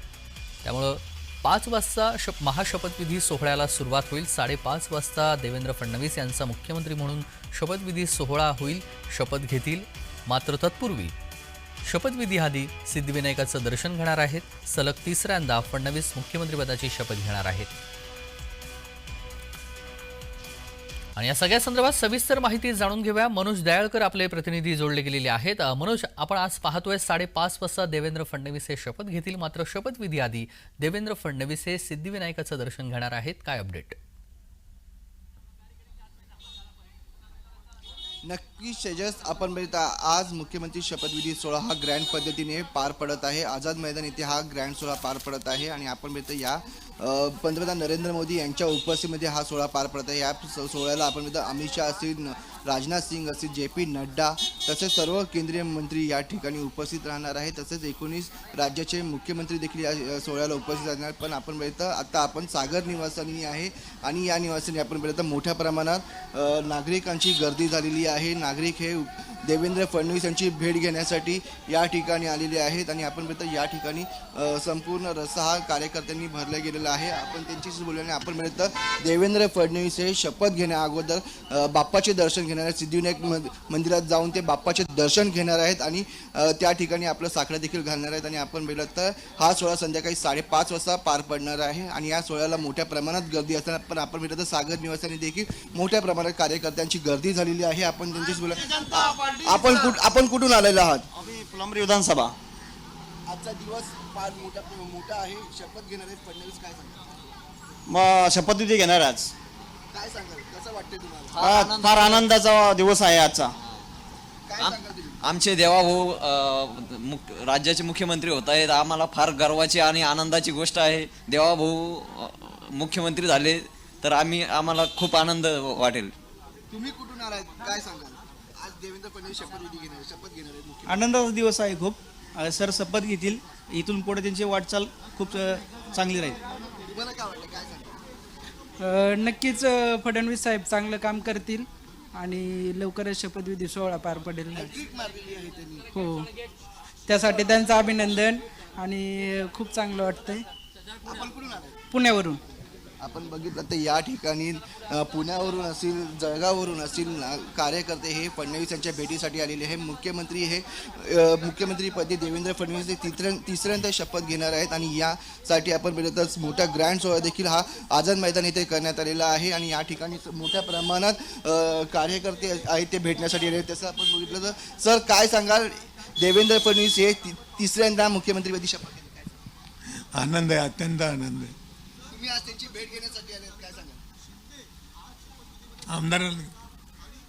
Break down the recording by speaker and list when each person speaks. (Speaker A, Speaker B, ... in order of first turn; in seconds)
Speaker A: 0.6-11.1, 11.8-17.7, 21.2-34.0
Speaker B: 38.2-101.1, 103.3-107.3, 109.9-111.4, 114.5-115.2, 126.7-131.1, 136.9-137.9, 144.5-145.9, 151.0-151.8, 153.0-179.4, 182.1-184.0
Speaker C: 101.2-102.3, 107.9-109.3, 111.4-113.5
Speaker D: 111.3-112.3, 114.6-126.1
Speaker E: 130.9-136.4
Speaker F: 138.8-144.7, 145.9-146.3, 147.1-150.5, 151.9-152.4
Speaker G: 180.1-181.6, 185.9-186.6